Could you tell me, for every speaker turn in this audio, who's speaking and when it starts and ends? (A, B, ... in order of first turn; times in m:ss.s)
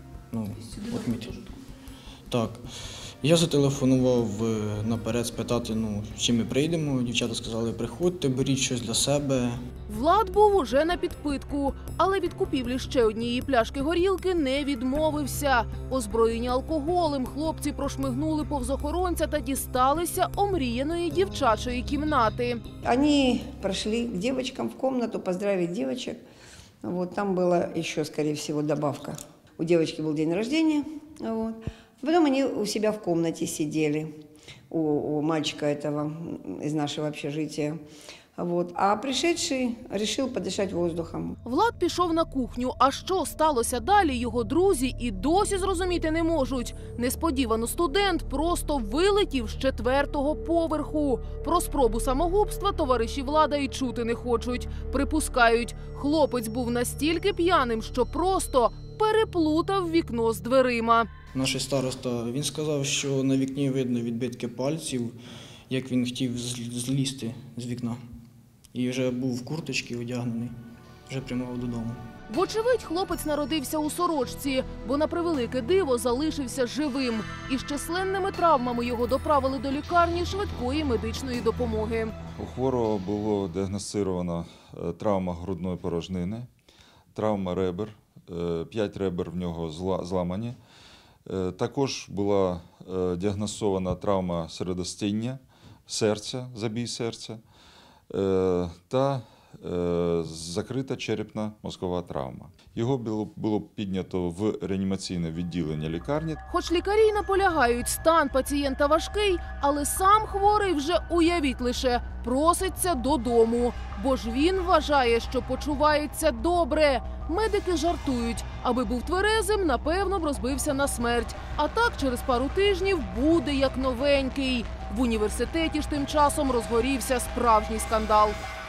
0:00.3-0:01.5 A
0:02.3-0:02.6 A
0:03.2-0:09.6 A
0:09.9-0:22.6 B
0:22.8-0:26.2 C
0:26.8-0:34.1 C
0:34.7-0:37.8 C
0:38.4-0:41.4 C
0:41.4-1:01.1 B
1:01.3-1:05.2 A
1:05.7-1:08.0 A
1:08.7-1:10.5 A
1:11.1-1:12.0 A
1:12.3-1:22.1 B
1:22.4-1:26.5 D
1:27.1-1:30.6 D
1:31.2-1:37.4 D
1:38.1-1:46.4 D
1:46.5-2:08.4 B